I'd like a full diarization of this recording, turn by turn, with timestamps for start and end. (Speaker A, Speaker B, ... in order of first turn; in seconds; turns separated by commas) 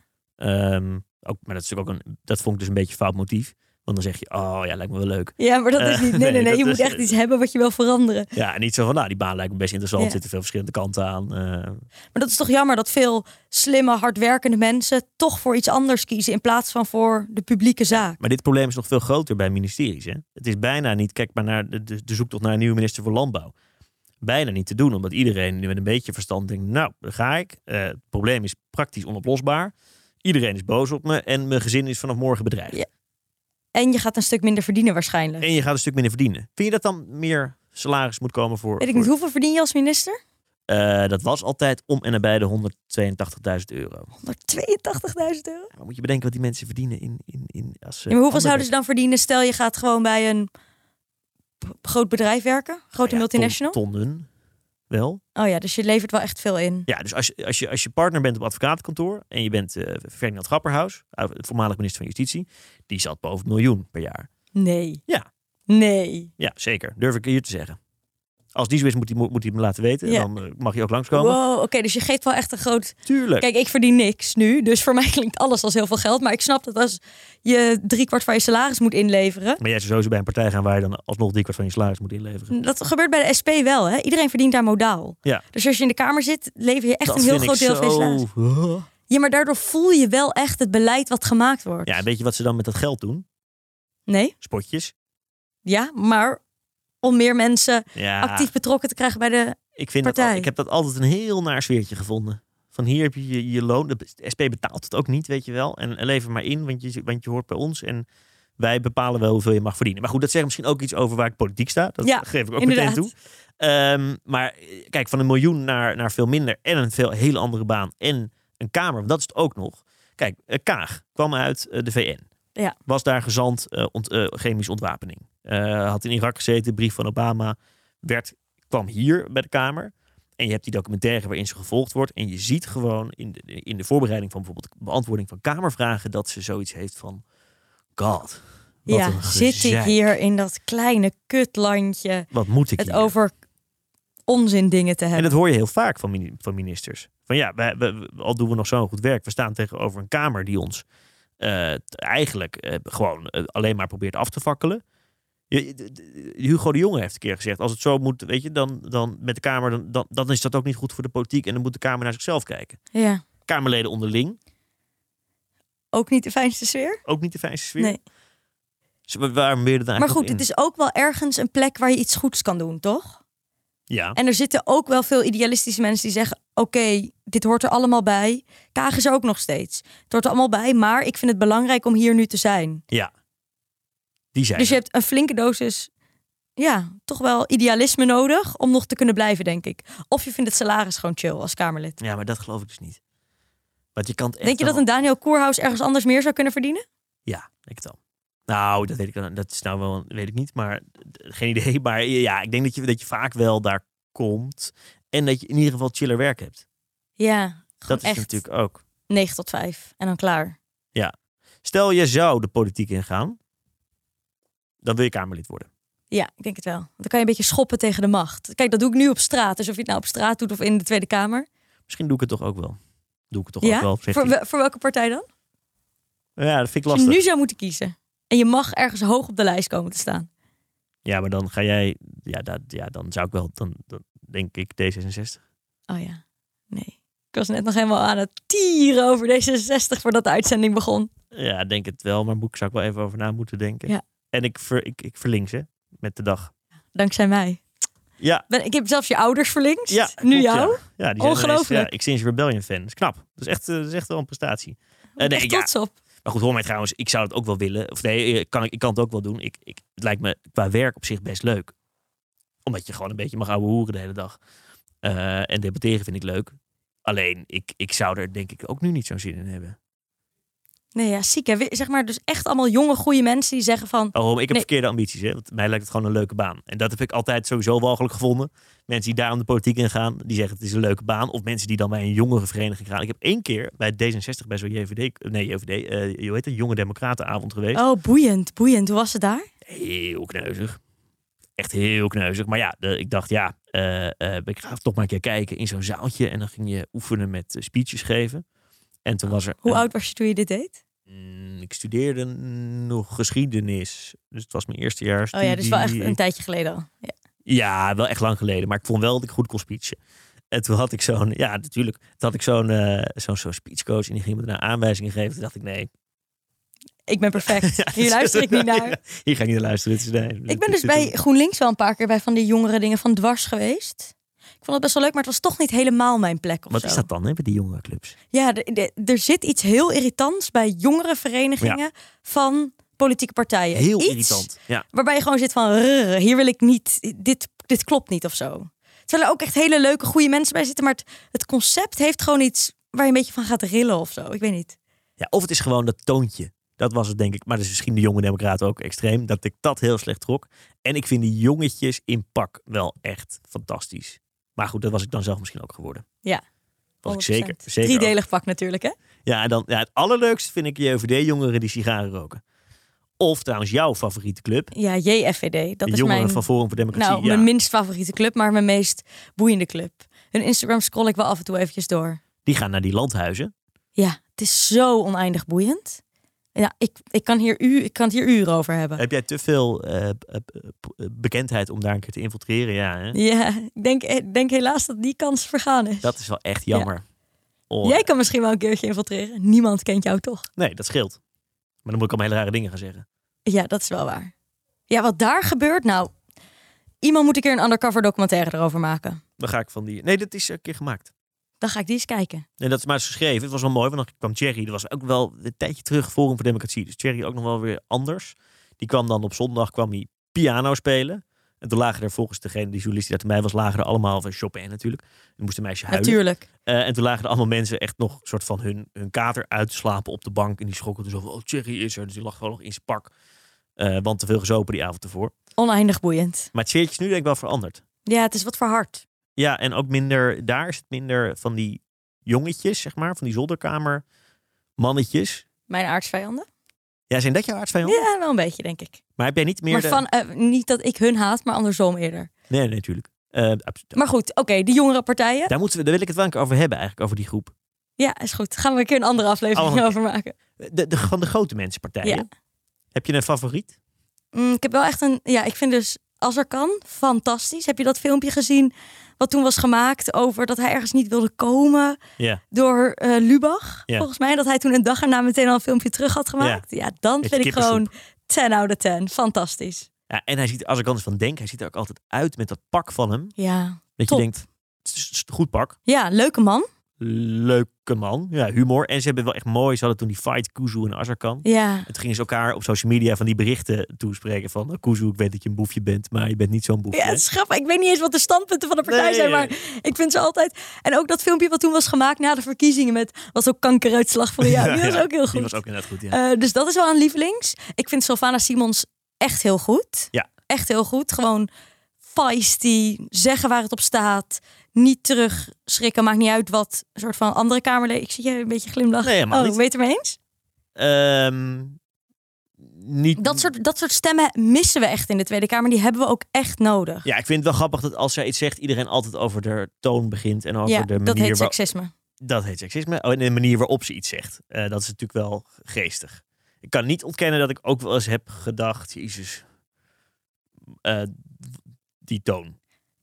Speaker A: 0.4-7.1, Speaker B: 5.4-8.3, Speaker A: 8.3-11.8, Speaker B: 12.1-18.2, Speaker A: 17.9-23.5, Speaker A: 24.2-29.7, Speaker A: 30.2-32.8, Speaker B: 33.8-35.5, Speaker A: 35.4-39.1, Speaker B: 38.8-40.2, Speaker A: 40.7-44.1, Speaker B: 44.2-45.7, Speaker A: 45.7-48.7, Speaker B: 48.1-50.5, Speaker B: 51.6-53.8, Speaker A: 53.0-54.3, Speaker A: 54.9-55.2, Speaker B: 55.4-56.9, Speaker A: 56.9-64.3, Speaker B: 64.5-65.0, Speaker B: 65.7-66.3, Speaker A: 66.4-67.8, Speaker A: 68.5-71.4, Speaker B: 71.1-79.6, Speaker A: 73.1-73.5, Speaker A: 79.6-82.5, Speaker B: 82.5-88.2, Speaker A: 87.1-88.9, Speaker B: 89.1-91.9, Speaker A: 91.8-93.2, Speaker B: 94.1-94.3, Speaker A: 94.4-94.9, Speaker B: 95.7-96.4, Speaker B: 97.0-100.5, Speaker A: 98.0-98.5, Speaker A: 99.8-108.1, Speaker A: 108.6-122.2, Speaker B: 112.0-113.1, Speaker A: 122.9-137.2, Speaker A: 138.0-140.0, Speaker B: 138.9-143.3, Speaker A: 142.3-143.1, Speaker B: 144.3-145.3, Speaker A: 145.2-150.8, Speaker A: 151.4-154.8, Speaker A: 155.5-162.8, Speaker B: 162.9-163.2, Speaker A: 163.5-164.4, Speaker B: 165.9-167.0, Speaker A: 167.1-168.0, Speaker A: 169.1-170.4, Speaker B: 170.0-173.2, Speaker A: 173.9-174.2, Speaker B: 174.2-182.8, Speaker A: 184.3-184.8, Speaker B: 184.6-185.9, Speaker B: 186.6-192.0, Speaker A: 192.0-193.0, Speaker A: 193.9-194.8, Speaker B: 194.4-196.8, Speaker A: 197.3-198.0, Speaker A: 198.5-206.6, Speaker B: 207.2-208.4, Speaker A: 207.9-208.8, Speaker B: 209.1-210.6, Speaker A: 211.6-213.4, Speaker A: 214.8-215.7, Speaker B: 216.1-221.5, Speaker A: 221.9-222.8, Speaker A: 223.3-224.3, Speaker B: 223.6-225.3, Speaker A: 226.4-227.2, Speaker B: 226.9-230.3, Speaker A: 231.1-235.4, Speaker B: 235.9-241.1, Speaker A: 241.3-246.5, Speaker B: 246.9-247.6, Speaker A: 248.2-248.5, Speaker B: 248.5-251.9, Speaker A: 249.9-255.7, Speaker B: 255.2-255.9, Speaker A: 256.2-261.7, Speaker A: 262.7-264.4, Speaker A: 265.0-266.6, Speaker A: 267.1-269.8, Speaker B: 270.9-274.7, Speaker A: 274.1-287.8, Speaker B: 287.7-289.5, Speaker A: 289.7-290.8, Speaker A: 291.6-298.4, Speaker A: 299.1-299.9, Speaker B: 299.6-300.8, Speaker A: 301.1-306.2, Speaker B: 305.3-307.1, Speaker A: 307.5-310.0, Speaker A: 310.5-315.9, Speaker B: 317.1-319.0, Speaker A: 317.4-321.1, Speaker B: 320.5-327.1, Speaker A: 326.7-328.2, Speaker B: 328.3-344.8, Speaker A: 333.7-334.9, Speaker A: 345.2-356.1, Speaker A: 357.0-358.1, Speaker B: 357.1-358.9, Speaker A: 359.3-362.4, Speaker A: 363.2-364.7, Speaker B: 364.7-372.2, Speaker A: 365.9-367.5, Speaker A: 372.4-373.5, Speaker B: 374.0-376.0, Speaker B: 376.6-379.0, Speaker A: 379.0-383.2, Speaker B: 383.1-386.1, Speaker A: 386.0-387.0, Speaker A: 387.7-388.1, Speaker B: 387.8-390.5, Speaker A: 390.6-391.2, Speaker A: 391.9-393.1, Speaker B: 393.5-394.3, Speaker B: 394.9-396.1, Speaker B: 397.0-399.2, Speaker A: 399.4-401.1, Speaker B: 401.6-402.5, Speaker A: 402.6-423.1, Speaker B: 415.9-416.5, Speaker A: 423.8-425.3, Speaker B: 425.6-426.5, Speaker A: 426.5-427.8, Speaker B: 428.1-429.0, Speaker A: 429.4-434.0, Speaker A: 434.8-435.4, Speaker B: 435.7-436.5, Speaker A: 437.1-438.0, Speaker B: 437.8-439.0, Speaker A: 439.2-440.0, Speaker B: 439.7-442.3, Speaker A: 442.5-444.0, Speaker B: 443.9-445.5, Speaker A: 445.5-447.5, Speaker B: 448.0-450.3, Speaker A: 449.6-450.0, Speaker A: 450.6-452.3, Speaker A: 452.9-453.7, Speaker B: 454.3-462.0, Speaker B: 462.5-469.9, Speaker A: 467.2-467.9, Speaker A: 470.1-473.3, Speaker B: 473.4-474.3, Speaker A: 474.0-475.8, Speaker B: 475.9-476.7, Speaker A: 477.0-487.2, Speaker B: 481.4-481.9, Speaker B: 486.9-495.6, Speaker A: 488.9-489.5, Speaker A: 494.4-496.2, Speaker B: 496.1-501.5, Speaker B: 502.1-510.2, Speaker A: 509.0-509.6, Speaker A: 510.8-511.8, Speaker A: 512.6-513.5, Speaker B: 513.2-517.1, Speaker A: 517.0-521.5, Speaker B: 520.7-521.9, Speaker A: 522.2-529.4, Speaker A: 530.8-532.6